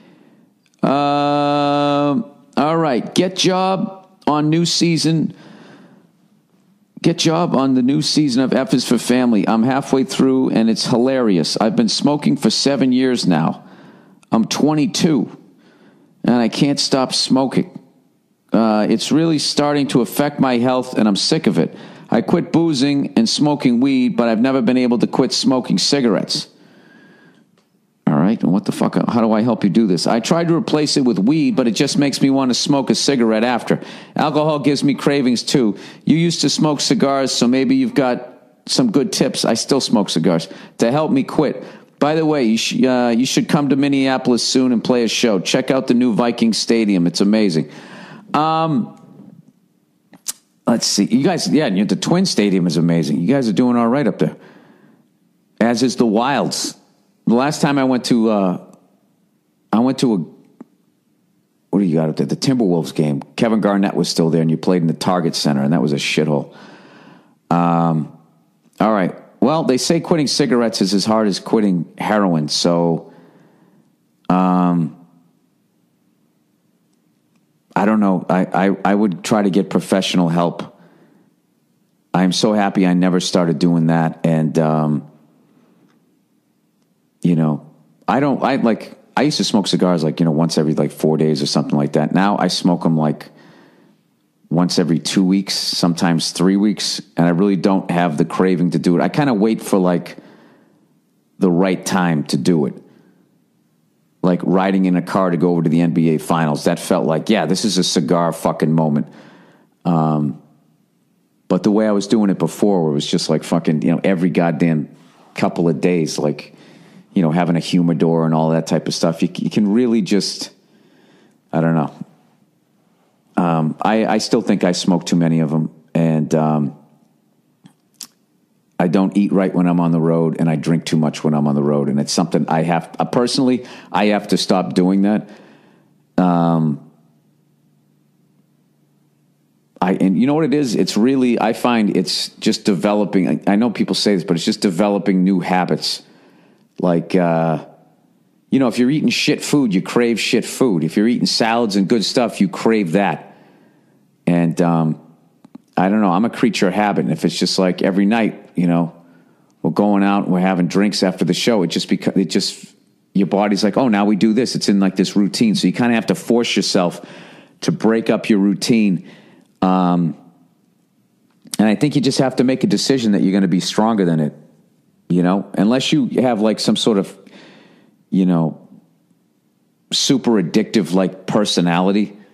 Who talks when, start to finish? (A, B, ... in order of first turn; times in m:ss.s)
0:00.8-0:05.3 A
0:07.0-0:13.6 A
0:14.3-0:15.3 A
0:16.2-0:17.7 A
0:18.5-0:26.5 A
0:28.1-0:47.7 A
0:48.3-0:48.9 A
0:50.6-0:54.4 A
0:55.6-0:58.6 A
0:59.7-1:00.3 A
1:01.7-1:06.5 A
1:07.5-1:08.1 A
1:08.8-1:13.1 A
1:14.3-1:15.0 A
1:17.8-1:20.7 A
1:22.1-1:25.0 A
1:27.2-1:33.3 A
1:34.5-1:40.2 A
1:41.4-1:42.8 A
1:44.2-1:49.1 A
1:49.8-1:50.4 A
1:51.5-1:56.5 A
1:57.1-2:00.5 A
2:01.5-2:01.9 A
2:03.4-2:06.7 A
2:08.8-2:15.3 A
2:16.2-2:16.8 A
2:19.8-2:26.0 A
2:26.8-2:27.6 A
2:28.5-2:33.3 A
2:34.3-2:35.0 A
2:35.8-2:38.9 A
2:39.6-2:47.0 A
2:47.6-2:49.0 A
2:49.6-2:50.2 A
2:51.6-2:54.4 A
2:55.1-2:57.2 A
2:58.1-2:58.6 A
2:59.9-3:02.1 A